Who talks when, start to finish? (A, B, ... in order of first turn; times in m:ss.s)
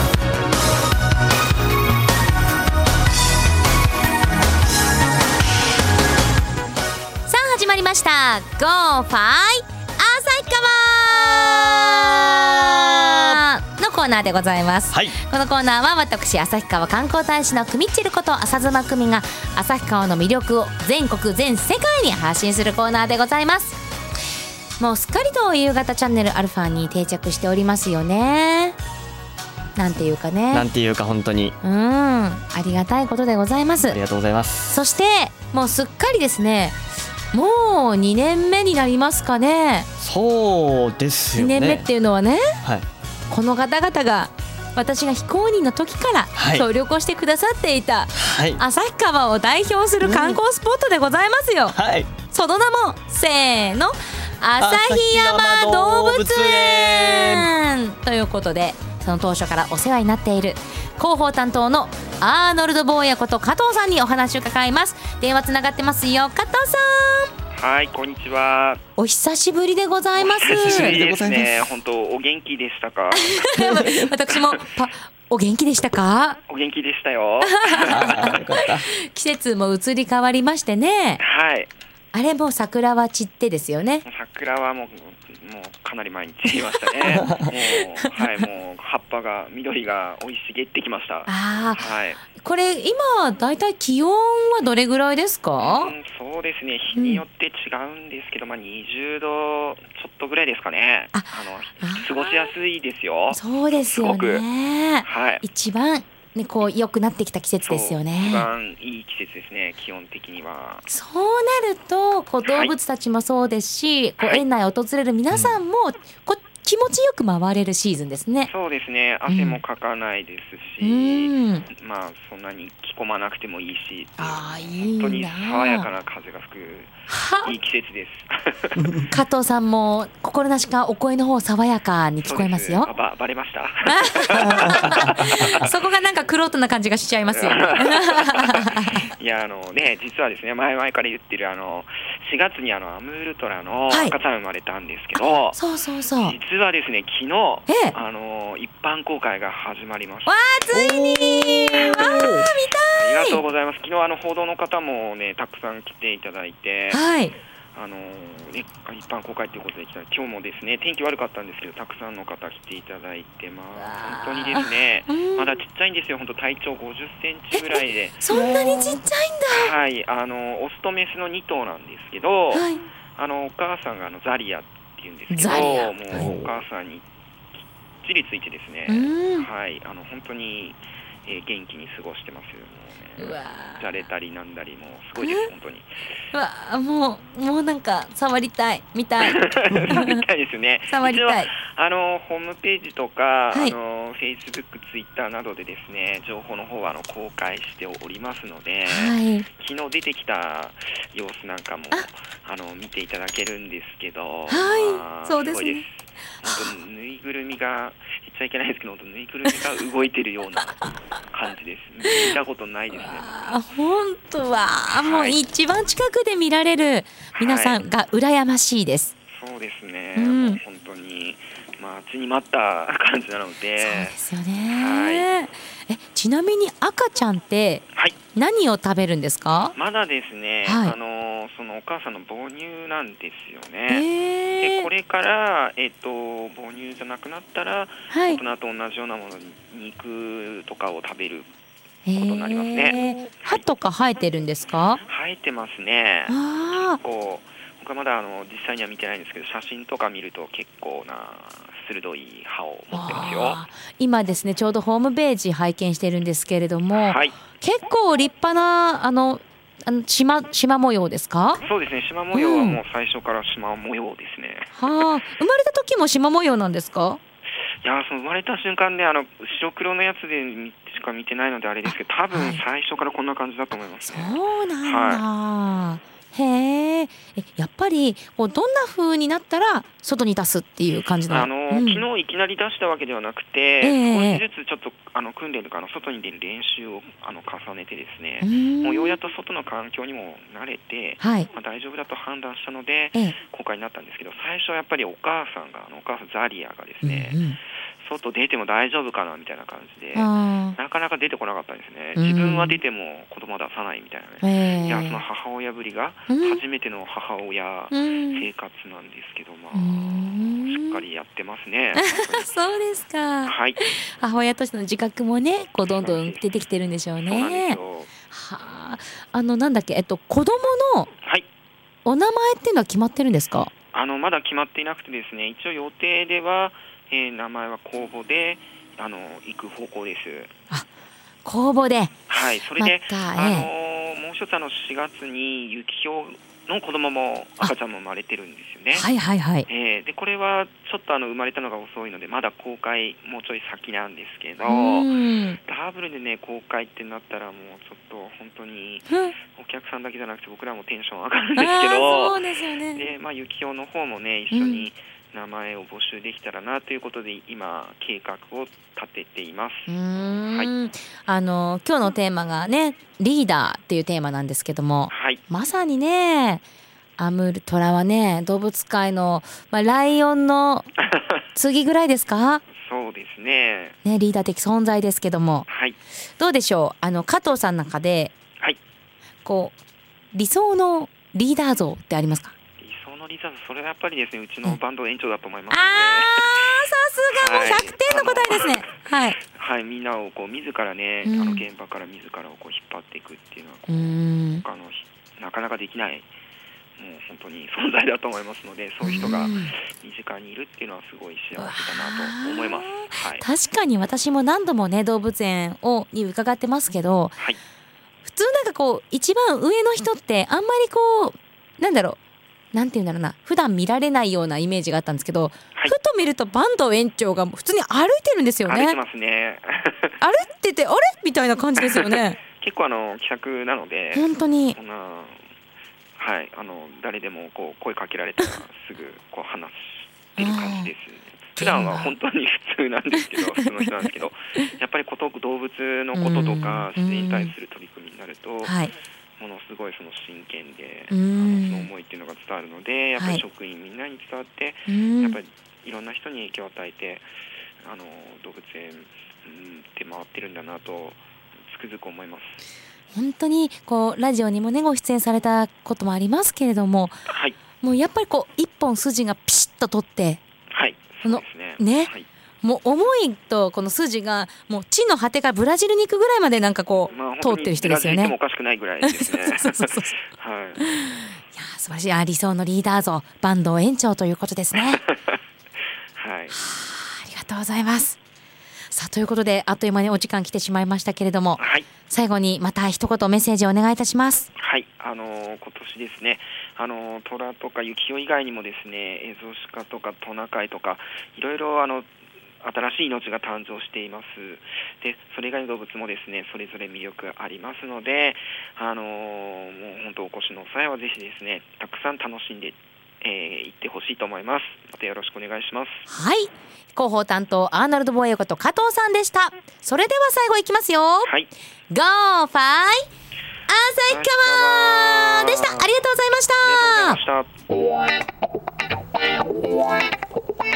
0:07.3-0:23.8 A
0:13.1-0:13.4 B
0:14.9-0:15.2 B
0:24.8-0:28.8 A
0:29.8-0:30.7 A
0:30.5-0:31.6 B
0:31.6-0:34.0 A
0:33.8-0:34.7 B
0:34.7-0:36.8 A
0:37.3-0:39.9 A
0:40.0-0:41.9 B
0:41.3-0:42.4 A
0:42.6-0:42.9 B
0:43.3-0:51.8 A
0:46.4-0:46.7 B
0:48.1-0:48.6 B
0:50.0-0:50.4 B
0:51.7-0:52.1 B
0:52.3-1:07.3 A
0:54.6-0:57.5 B
1:07.5-1:08.8 C
1:09.0-1:11.0 A
1:10.2-1:13.6 C
1:10.4-1:11.5 B
1:13.1-1:16.4 A
1:13.6-1:14.0 B
1:14.3-1:14.5 C
1:16.5-1:18.3 C
1:17.4-1:21.2 A
1:17.9-1:18.9 B
1:21.2-1:21.7 C
1:22.1-1:24.0 A
1:24.0-1:32.2 C
1:27.0-1:27.3 A
1:27.1-1:27.4 B
1:31.3-1:35.9 A
1:35.6-1:44.4 C
1:36.9-1:37.2 A
1:41.1-1:42.5 A
1:43.3-1:48.5 A
1:45.0-1:45.4 C
1:47.6-1:50.9 C
1:50.9-1:58.5 A
1:52.5-1:52.7 C
1:54.2-1:54.4 C
1:58.5-2:08.8 C
1:59.3-1:59.6 A
2:00.8-2:01.6 A
2:04.2-2:05.9 A
2:07.1-2:07.5 A
2:09.1-2:12.9 A
2:12.2-2:15.6 C
2:13.8-2:19.0 A
2:17.3-2:25.6 C
2:23.9-2:24.1 A
2:25.3-2:26.4 A
2:26.2-2:30.7 C
2:27.7-2:27.9 A
2:30.2-2:33.4 A
2:30.7-2:32.4 B
2:31.7-2:37.0 C
2:36.9-2:37.3 A
2:37.7-2:48.2 C
2:43.8-2:45.6 A
2:47.5-2:49.7 A
2:48.3-2:48.7 B
2:49.5-2:57.0 C
2:52.5-2:52.8 A
2:55.3-2:56.3 A
2:56.1-2:56.5 B
2:58.0-3:05.9 C
2:58.9-2:59.5 A
3:03.2-3:04.0 A
3:05.2-3:05.5 A
3:06.3-3:10.2 A
3:09.2-3:33.6 C
3:10.9-3:11.5 A
3:18.9-3:19.4 A
3:24.5-3:25.8 A
3:32.0-3:32.3 A
3:32.9-3:39.1 A
3:34.9-3:35.4 C
3:37.4-3:37.8 C
3:39.3-3:45.3 C
3:40.2-3:40.6 A
3:43.8-3:47.8 A
3:48.3-3:49.7 A
3:49.7-3:54.1 C
3:50.6-3:51.0 A
3:53.9-3:54.9 A
3:54.6-4:01.5 C
3:58.1-3:58.4 A
4:02.0-4:05.0 A
4:02.1-4:03.6 C
4:05.0-4:13.6 C
4:06.3-4:07.0 A
4:12.9-4:21.6 A
4:16.9-4:17.4 C
4:21.6-4:25.1 C
4:22.3-4:22.8 A
4:24.7-4:27.2 A
4:27.8-4:35.2 C
4:31.8-4:32.6 A
4:34.0-4:42.0 A
4:41.3-4:57.4 C
4:43.8-4:44.4 A
4:48.4-4:49.2 A
4:51.2-4:51.5 A
4:57.0-4:57.6 A
4:58.0-5:12.5 C
5:00.2-5:00.8 A
5:02.1-5:02.8 A
5:04.4-5:05.2 A
5:06.3-5:06.6 A
5:07.9-5:08.4 A
5:09.7-5:11.0 A
5:12.0-5:17.8 A
5:13.4-5:13.8 C
5:15.9-5:16.5 C
5:17.2-5:18.1 C
5:18.3-5:21.1 A
5:22.0-5:23.7 A
5:23.9-5:30.5 C
5:31.4-5:32.2 A
5:32.3-5:39.1 C
5:32.8-5:33.7 A
5:38.9-5:39.7 A
5:39.7-5:45.1 C
5:44.6-5:45.6 A
5:45.6-5:52.4 C
5:49.1-5:49.3 A
5:51.6-5:53.0 A
5:52.9-5:59.9 C
5:54.5-5:54.9 A
5:59.9-6:06.6 A
6:05.1-6:05.4 C
6:07.2-6:10.9 A
6:11.5-6:12.6 A
6:12.8-6:14.0 C
6:14.0-6:15.7 A
6:15.7-6:16.0 C
6:16.4-6:18.3 A
6:19.4-6:19.8 A
6:20.3-6:22.5 A
6:22.8-6:26.7 C
6:25.7-6:29.4 A
6:27.3-6:28.9 C
6:29.5-6:36.3 C
6:31.2-6:31.6 A
6:33.9-6:34.6 A
6:37.0-6:43.4 C
6:39.0-6:39.7 A
6:41.6-6:47.3 A
6:48.2-6:52.2 A
6:52.7-6:59.0 A
6:58.6-7:00.2 C
7:00.2-7:02.4 A
7:01.8-7:05.4 C
7:04.1-7:04.8 A
7:06.2-7:18.8 C
7:10.4-7:10.9 A
7:11.6-7:12.1 A
7:13.2-7:13.9 A
7:16.1-7:17.5 A
7:18.6-7:18.9 A
7:19.4-7:27.2 C
7:21.1-7:21.9 A
7:24.9-7:25.4 A
7:27.8-7:32.6 C
7:33.1-7:37.2 A
7:37.3-7:37.6 C
7:37.8-7:40.4 A
7:40.7-7:42.3 C
7:41.2-7:42.1 A
7:42.6-7:48.4 A
7:47.1-7:50.8 C
7:49.0-7:50.1 A
7:50.8-7:55.0 A
7:54.8-7:55.4 C
7:56.2-7:56.6 C
7:56.5-7:58.2 A
7:58.9-8:04.5 A
8:01.6-8:01.9 C
8:04.6-8:12.1 C
8:12.6-8:26.1 C
8:26.1-8:31.3 A
8:31.2-8:31.5 C
8:31.9-8:33.0 A
8:33.7-8:37.2 A
8:34.1-8:35.9 C
8:36.6-8:37.5 C